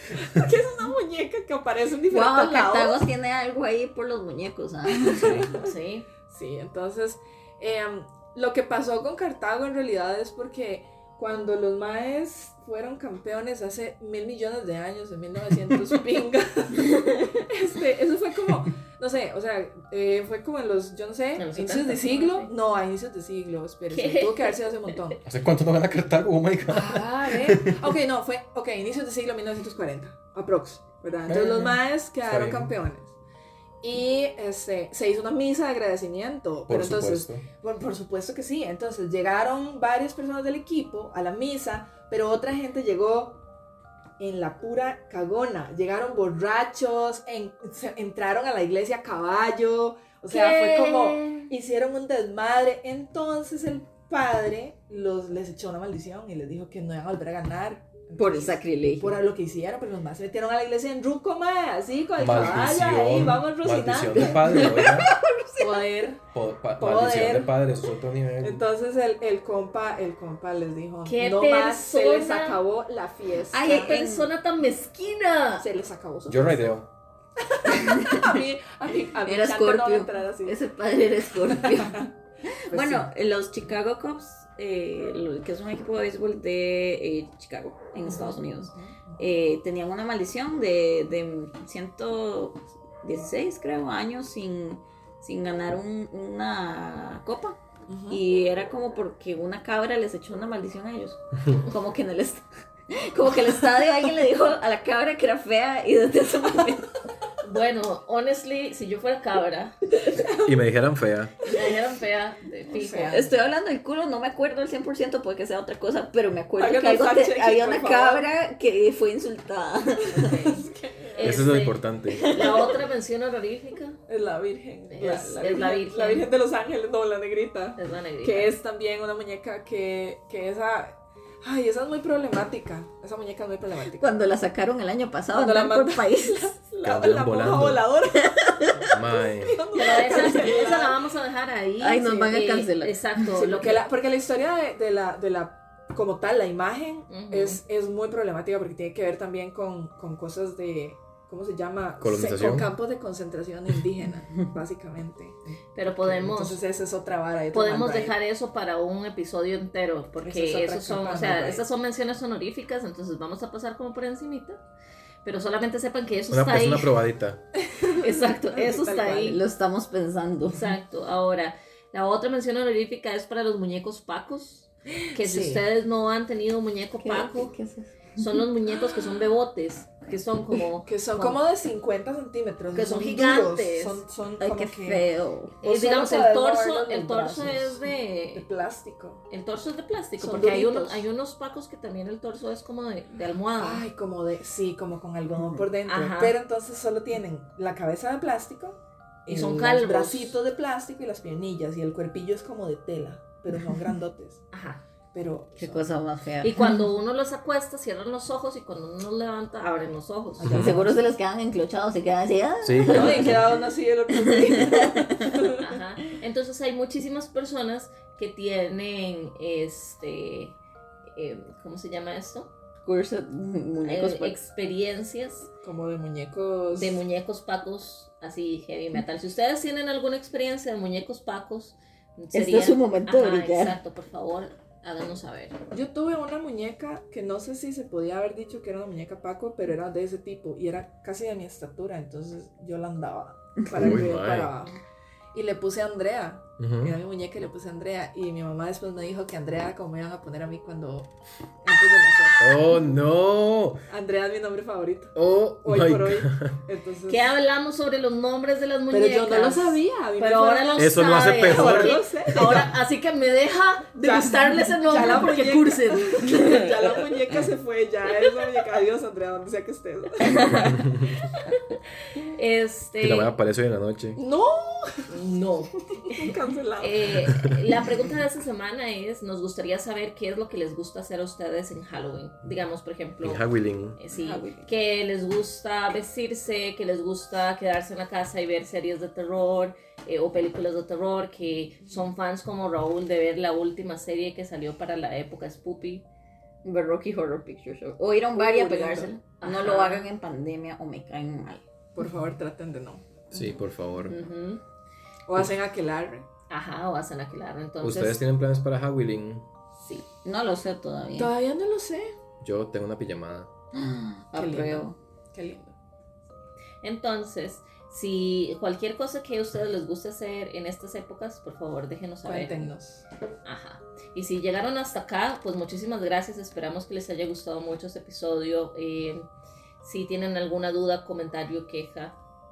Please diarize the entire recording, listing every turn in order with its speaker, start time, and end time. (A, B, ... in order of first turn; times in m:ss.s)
0:00.1-0:03.0 A
0:02.1-0:05.5 B
0:05.1-0:05.7 A
0:05.5-0:06.0 C
0:06.3-0:25.2 A
0:21.4-0:22.5 C
0:23.9-0:25.2 C
0:25.2-0:27.9 D
0:26.7-0:33.1 A
0:31.3-0:32.7 D
0:33.8-0:43.4 A
0:36.7-0:37.4 D
0:44.2-1:04.9 A
0:50.3-0:51.5 B
0:58.2-0:59.2 B
1:02.2-1:05.1 D
1:04.2-1:05.8 B
1:05.6-1:06.2 A
1:06.3-1:08.6 D
1:06.8-1:07.6 A
1:08.4-1:13.9 A
1:11.0-1:12.6 C
1:13.5-1:14.3 B
1:13.6-1:15.7 C
1:15.6-1:16.6 A
1:16.3-1:16.9 D
1:17.5-1:20.6 A
1:17.7-1:18.3 B
1:19.2-1:37.6 B
1:21.6-1:22.1 A
1:22.7-1:23.1 A
1:28.0-1:29.2 A
1:37.9-1:38.2 A
1:38.1-1:47.0 B
1:47.4-1:49.8 C
1:50.0-1:50.7 A
1:50.4-1:51.3 D
1:51.4-1:51.8 A
1:51.4-1:53.3 C
1:52.7-1:53.3 A
1:53.1-2:00.5 B
1:56.6-1:58.2 A
2:00.1-2:01.5 A
2:00.1-2:04.0 C
2:01.2-2:02.3 D
2:02.1-2:02.8 B
2:04.1-2:14.0 A
2:04.9-2:06.3 C
2:07.8-2:08.5 C
2:14.0-2:16.5 B
2:15.3-2:18.5 A
2:16.8-2:17.8 D
2:18.2-2:18.9 B
2:18.9-2:19.6 D
2:19.1-2:21.0 A
2:19.7-2:23.8 C
2:20.0-2:20.7 B
2:21.8-2:23.2 B
2:23.3-2:38.2 A
2:27.1-2:27.6 C
2:32.0-2:32.7 D
2:35.7-2:36.6 C
2:37.5-2:44.6 C
2:40.2-2:41.6 A
2:45.2-2:47.0 C
2:46.3-2:47.4 D
2:47.7-2:49.4 A
2:47.9-2:49.4 C
2:49.3-2:50.8 B
2:50.5-2:57.5 C
2:55.1-2:55.6 A
2:57.0-2:58.3 B
2:58.1-3:01.4 C
3:00.8-3:05.0 A
3:02.7-3:04.0 C
3:04.4-3:05.6 B
3:05.6-3:08.5 C
3:05.6-3:09.2 A
3:09.3-3:13.8 C
3:10.2-3:11.1 A
3:13.6-3:24.4 A
3:15.8-3:16.4 C
3:19.3-3:20.4 C
3:24.5-3:24.8 C
3:25.1-3:25.8 A
3:25.6-3:26.8 B
3:26.4-3:30.7 C
3:30.4-3:30.9 A
3:30.4-3:30.8 D
3:30.5-3:33.4 B
3:32.6-3:33.5 D
3:32.8-3:35.7 A
3:34.2-3:35.3 B
3:35.6-3:40.6 C
3:41.1-3:42.5 C
3:42.8-3:44.4 B
3:43.8-3:45.5 C
3:45.6-3:47.0 A
3:46.7-3:55.6 C
3:52.3-3:53.8 B
3:55.7-4:11.1 A
4:03.6-4:04.1 B
4:03.7-4:04.6 D
4:06.6-4:07.0 D
4:11.6-4:12.6 A
4:12.4-4:13.8 D
4:13.9-4:17.2 A
4:15.1-4:16.6 D
4:17.1-4:26.9 C
4:18.9-4:22.8 A
4:20.8-4:22.5 D
4:24.0-4:30.8 A
4:30.5-4:31.2 D
4:32.2-4:33.3 C
4:33.0-4:34.2 D
4:34.2-4:37.0 A
4:35.1-4:56.0 C
4:37.2-4:37.6 D
4:43.2-4:44.0 D
4:44.1-4:44.7 A
4:56.6-5:01.6 B
4:58.4-4:59.2 A
4:59.4-5:00.0 C
5:01.9-5:03.2 A
5:03.3-5:04.2 D
5:04.0-5:04.6 C
5:05.3-5:06.3 A
5:06.5-5:08.2 C
5:07.8-5:09.5 D
5:09.8-5:11.3 B
5:11.2-5:12.1 A
5:12.4-5:13.5 D
5:13.7-5:15.0 B
5:14.3-5:15.7 A
5:16.8-5:22.7 C
5:22.2-5:23.0 A
5:23.4-5:29.3 C
5:29.8-5:32.2 C